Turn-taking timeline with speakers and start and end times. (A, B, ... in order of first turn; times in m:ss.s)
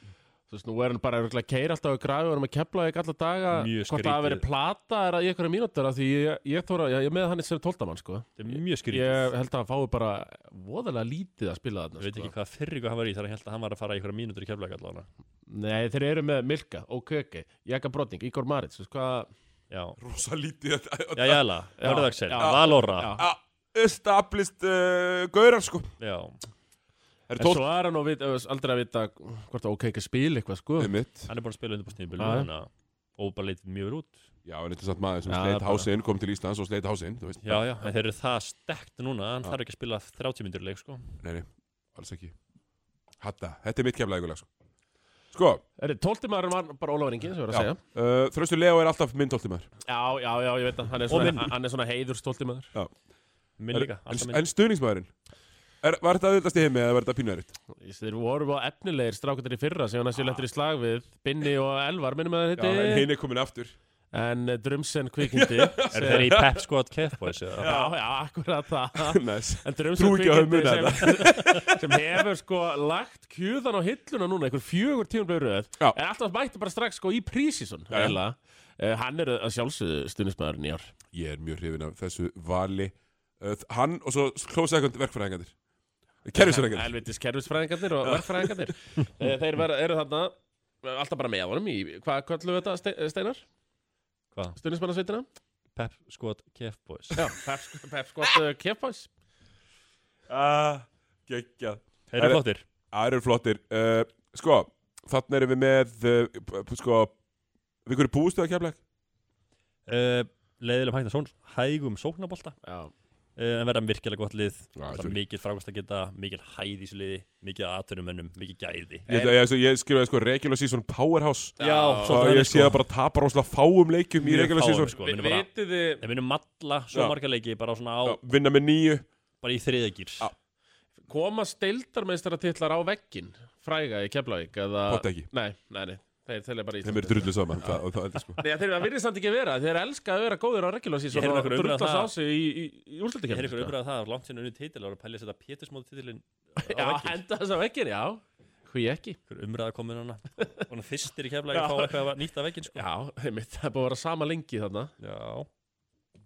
0:00.5-0:12.3 A
0:03.5-0:04.4 B
0:08.4-0:09.3 B
0:12.0-0:15.1 B
0:15.5-0:19.3 A
0:19.7-0:20.0 B
0:20.0-0:21.5 C
0:21.2-0:23.2 B
0:21.8-0:23.3 A
0:22.3-0:25.9 C
0:26.0-0:26.4 B
0:27.3-0:27.6 C
0:27.4-0:30.9 A
0:30.8-0:31.3 C
0:31.3-0:34.2 B
0:32.2-0:32.5 A
0:34.4-0:37.9 C
0:35.3-0:35.9 A
0:37.4-0:41.1 B
0:41.2-0:42.4 C
0:43.2-0:44.5 C
0:45.3-0:45.6 C
0:45.8-0:47.8 A
0:47.5-0:49.7 C
0:49.9-0:52.7 A
0:51.1-0:51.5 B
0:53.6-0:54.4 B
0:53.7-0:55.1 C
0:55.8-0:57.6 C
0:57.8-1:03.1 A
1:02.6-1:03.8 C
1:04.1-1:06.4 A
1:05.3-1:06.6 C
1:05.9-1:07.8 B
1:07.6-1:07.9 C
1:07.6-1:20.9 A
1:09.0-1:11.8 C
1:17.9-1:18.2 C
1:21.1-1:25.5 C
1:26.2-1:27.0 C
1:26.4-1:33.4 A
1:28.0-1:28.7 C
1:34.6-1:35.3 A
1:35.8-1:37.2 B
1:37.2-1:39.1 A
1:40.3-1:47.1 C
1:42.1-1:42.7 B
1:47.9-1:48.8 C
1:49.9-1:52.6 B
1:52.6-1:52.9 A
1:53.4-1:59.1 B
1:54.8-1:55.2 C
1:59.1-1:59.4 A
1:59.1-2:05.0 C
2:01.6-2:02.4 A
2:01.6-2:02.8 B
2:04.2-2:08.2 B
2:04.8-2:06.0 A
2:08.0-2:09.1 C
2:09.4-2:10.3 B
2:11.1-2:17.8 A
2:14.9-2:15.3 C
2:16.8-2:18.4 C
2:18.4-2:23.7 A
2:21.1-2:22.1 B
2:23.3-2:27.2 B
2:26.6-2:29.2 A
2:29.3-2:32.8 B
2:31.5-2:31.9 A
2:32.7-2:34.9 A
2:35.0-2:35.5 B